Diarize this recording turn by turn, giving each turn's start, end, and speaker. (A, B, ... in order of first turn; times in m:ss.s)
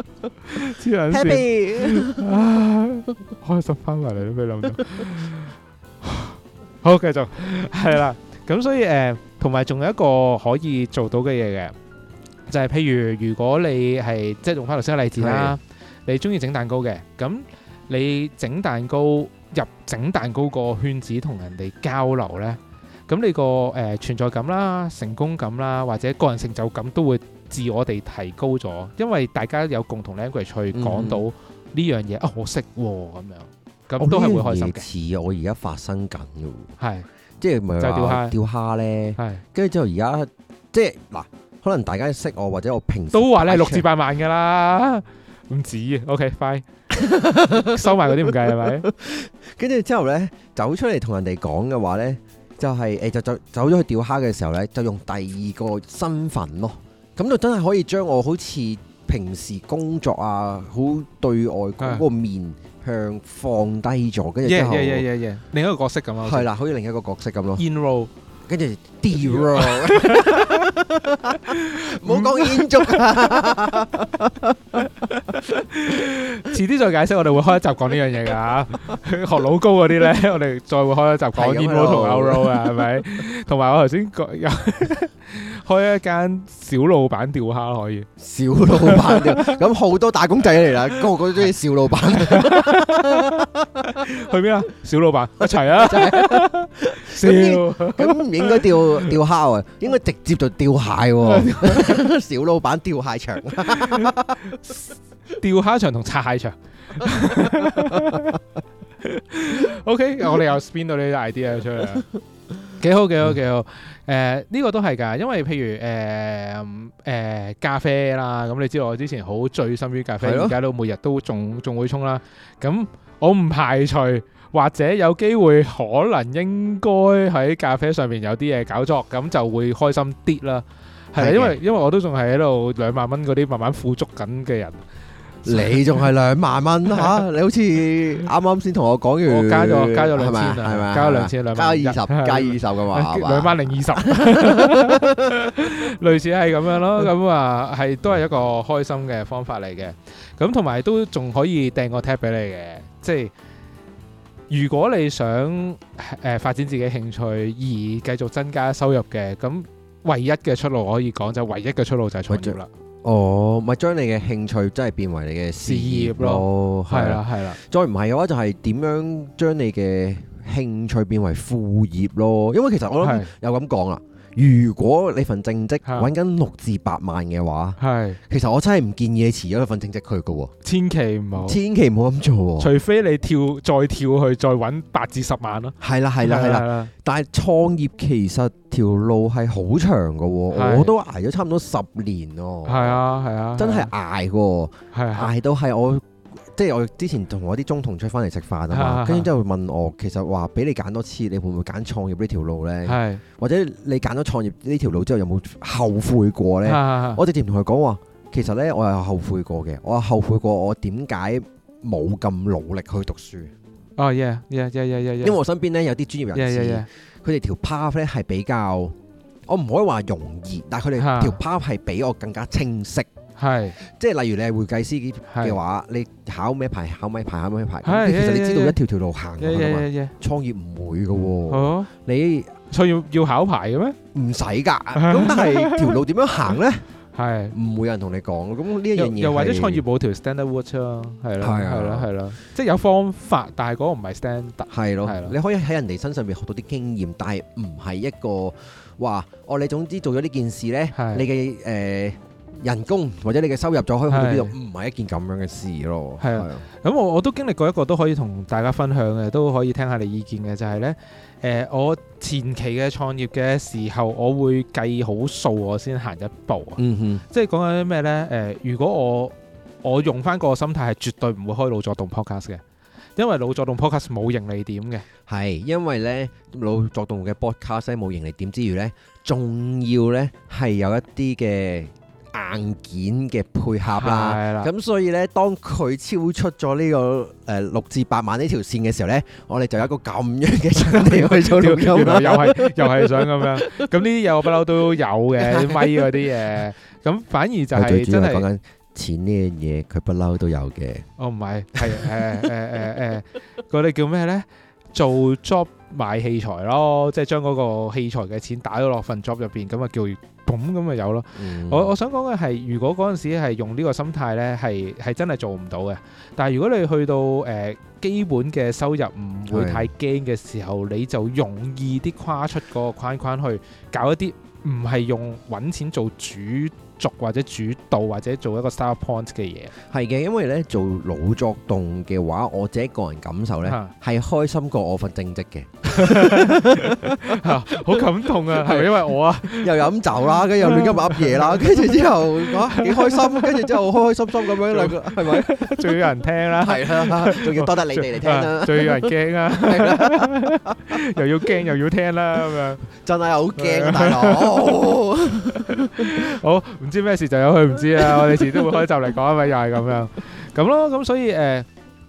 0:00.5-0:11.7 A
0:01.1-0:02.3 B
0:12.5-0:34.9 A
0:15.2-0:15.6 B
0:30.7-0:31.2 B
0:34.0-0:36.7 B
0:36.8-0:37.1 A
0:37.4-0:43.9 B
0:37.8-0:38.4 A
0:39.2-0:39.4 A
0:43.1-0:46.7 A
0:46.9-1:05.1 B
0:47.6-0:48.9 A
1:01.8-1:02.0 A
1:04.4-1:06.5 A
1:06.2-1:07.6 B
1:07.6-1:08.1 A
1:08.5-1:14.9 B
1:09.2-1:10.7 A
1:11.3-1:13.5 A
1:14.8-1:28.1 A
1:21.4-1:22.7 B
1:28.2-1:34.1 B
1:28.7-1:29.6 A
1:32.1-1:39.2 A
1:35.4-1:44.6 B
1:41.2-1:42.0 A
1:45.3-1:48.4 A
1:47.6-1:48.3 B
1:49.0-1:52.1 A
1:52.8-2:14.8 A
2:00.2-2:00.6 B
2:11.2-2:11.6 B
2:15.4-2:16.0 A
2:15.5-2:25.5 B
2:19.3-2:33.3 A
2:34.5-2:42.7 A
2:42.3-3:00.5 B
2:45.6-2:47.6 A
2:53.0-2:53.3 A
2:55.8-2:56.1 A
2:57.8-2:58.2 A
3:00.6-3:01.6 A
3:01.4-3:02.7 B
3:02.6-3:06.9 A
3:05.8-3:13.0 B
3:10.5-3:10.9 A
3:12.7-3:13.9 A
3:13.6-3:33.5 B
3:14.9-3:15.3 A
3:18.7-3:19.3 A
3:22.9-3:23.2 A
3:26.6-3:27.2 A
3:34.0-3:35.4 A
3:35.2-3:39.0 B
3:36.3-3:36.9 A
3:39.5-3:43.1 B
3:41.0-3:41.4 A
3:43.4-3:43.8 A
3:43.8-3:52.6 B
3:45.3-3:45.6 A
3:47.8-3:48.8 A
3:49.4-3:50.1 A
3:51.5-3:51.9 A
3:52.7-3:54.0 A
3:54.1-3:56.8 B
3:55.0-3:56.0 A
3:57.2-3:57.6 A
3:57.5-3:59.8 B
3:58.9-4:05.4 A
4:01.4-4:02.1 B
4:04.7-4:16.6 B
4:10.9-4:11.2 A
4:14.1-4:14.5 A
4:16.2-4:32.6 A
4:26.8-4:27.2 B
4:33.2-4:35.1 A
4:35.3-4:53.9 B
4:43.9-4:44.7 A
4:50.8-4:58.4 A
4:55.4-4:56.3 B
4:57.7-5:01.1 B
5:01.2-5:29.7 A
5:01.8-5:02.5 B
5:11.4-5:11.9 B
5:19.5-5:19.9 B
5:29.9-5:46.1 B
5:33.6-5:33.9 A
5:35.9-5:43.8 A
5:44.4-5:52.9 A
5:46.6-5:51.0 B
5:52.9-5:56.4 B
5:53.6-6:01.7 A
5:58.0-5:58.8 B